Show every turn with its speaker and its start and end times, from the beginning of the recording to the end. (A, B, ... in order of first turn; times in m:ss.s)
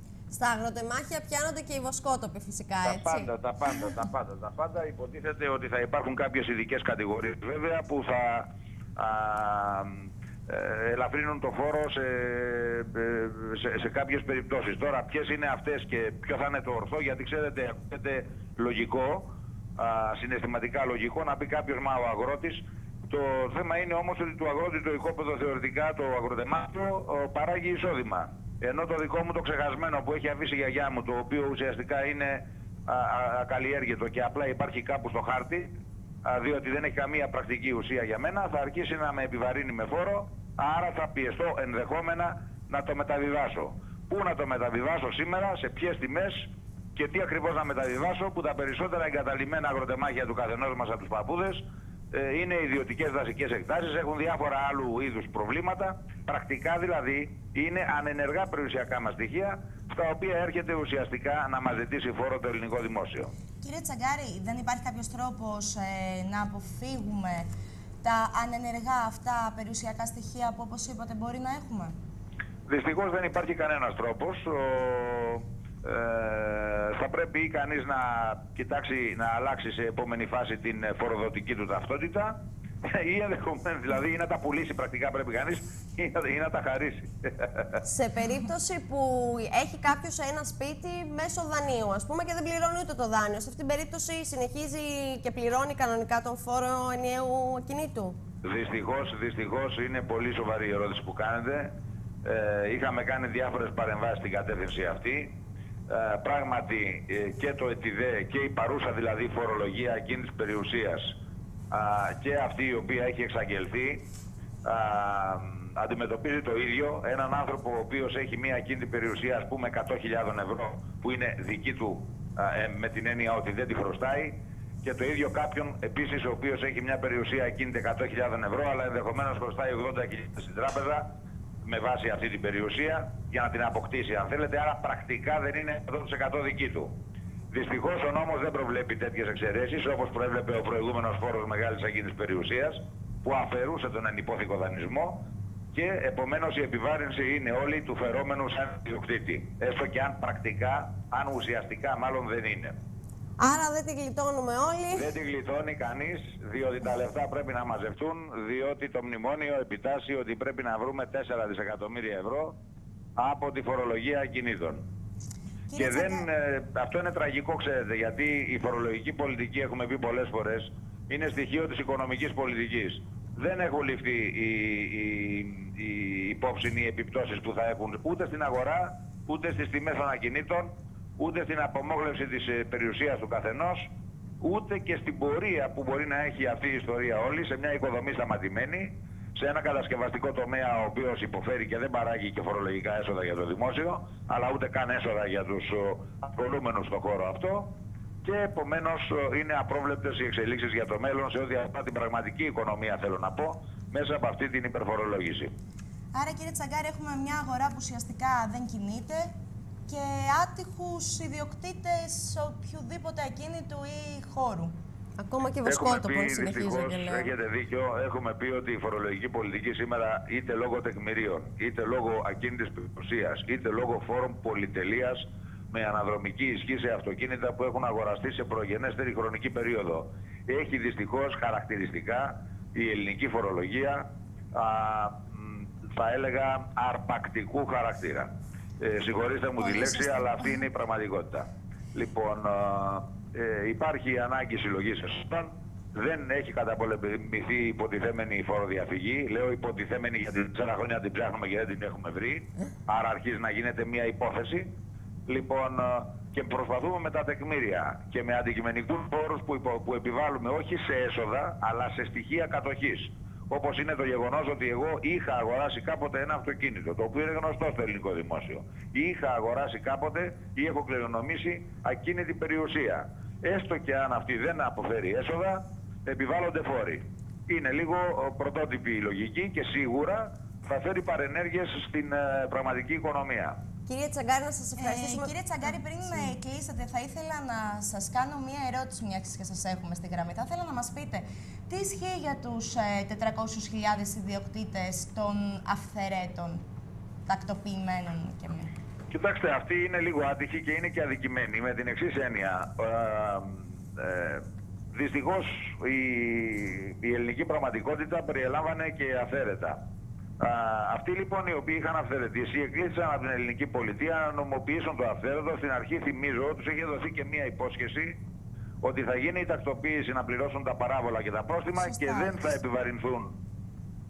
0:00.3-0:03.3 A
0:02.8-0:35.7 B
0:36.2-1:03.3 B
1:03.6-1:07.5 C
1:08.0-1:11.9 C
1:12.7-1:27.8 B
1:27.8-1:38.2 A
1:38.4-1:45.4 B
1:45.9-1:51.2 B
1:51.7-1:54.0 B
1:54.6-2:11.1 B
2:11.6-2:16.9 B
2:17.5-2:32.8 B
2:33.4-2:35.1 A
2:34.9-2:42.6 B
2:43.2-2:44.8 B
2:45.7-2:46.3 C
2:45.8-3:17.7 B
3:18.2-3:25.5 B
3:26.1-3:29.3 C
3:29.9-3:34.7 C
3:35.2-3:37.3 A
3:35.6-4:14.7 B
3:59.8-4:00.5 C
4:15.3-4:43.6 B
4:43.8-4:45.3 A
4:44.8-4:56.6 C
4:57.2-4:58.7 C
4:59.1-5:09.8 B
5:10.4-5:18.2 B
5:18.8-5:23.4 B
5:21.7-5:22.5 C